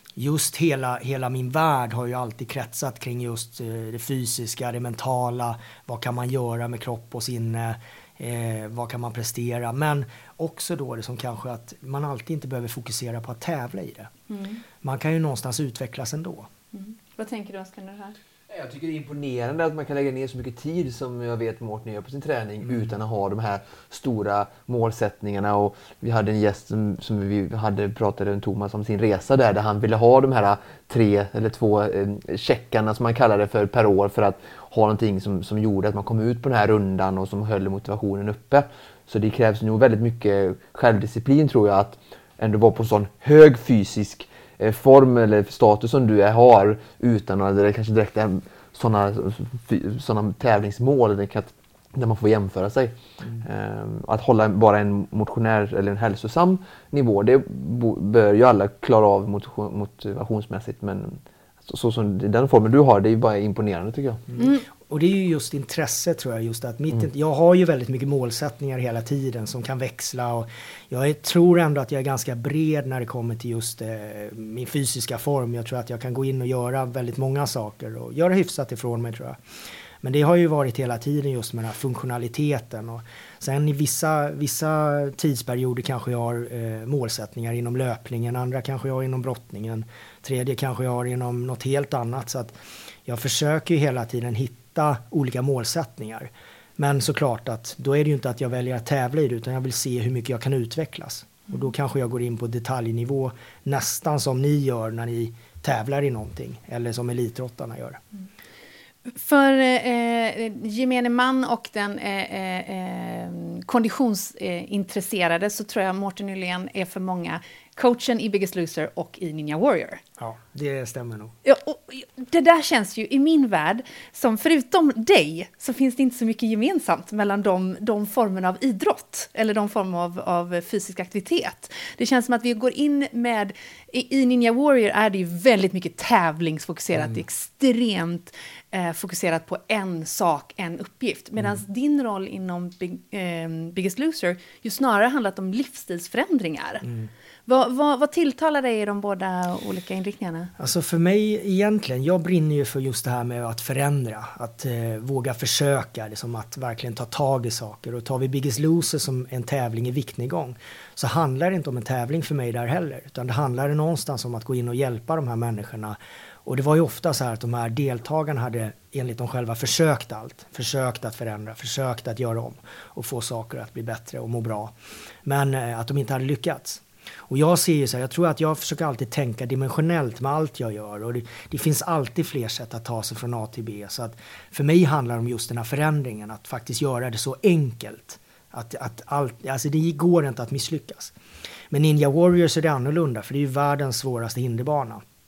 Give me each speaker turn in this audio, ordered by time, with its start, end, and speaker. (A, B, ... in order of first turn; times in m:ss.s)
0:00.2-0:14.1 A
0:14.3-0:14.6 B
0:14.8-0:16.5 A
0:16.7-0:18.2 B
0:18.5-1:04.2 C
1:04.3-1:19.4 A
1:04.4-1:04.6 B
1:20.0-1:48.0 A
1:49.1-2:00.0 B
2:00.2-2:01.3 A
2:01.4-2:26.9 B
2:26.8-2:27.1 A
2:27.5-2:30.5 B
2:30.6-2:54.7 A
2:55.2-3:11.1 A
3:11.7-3:15.0 A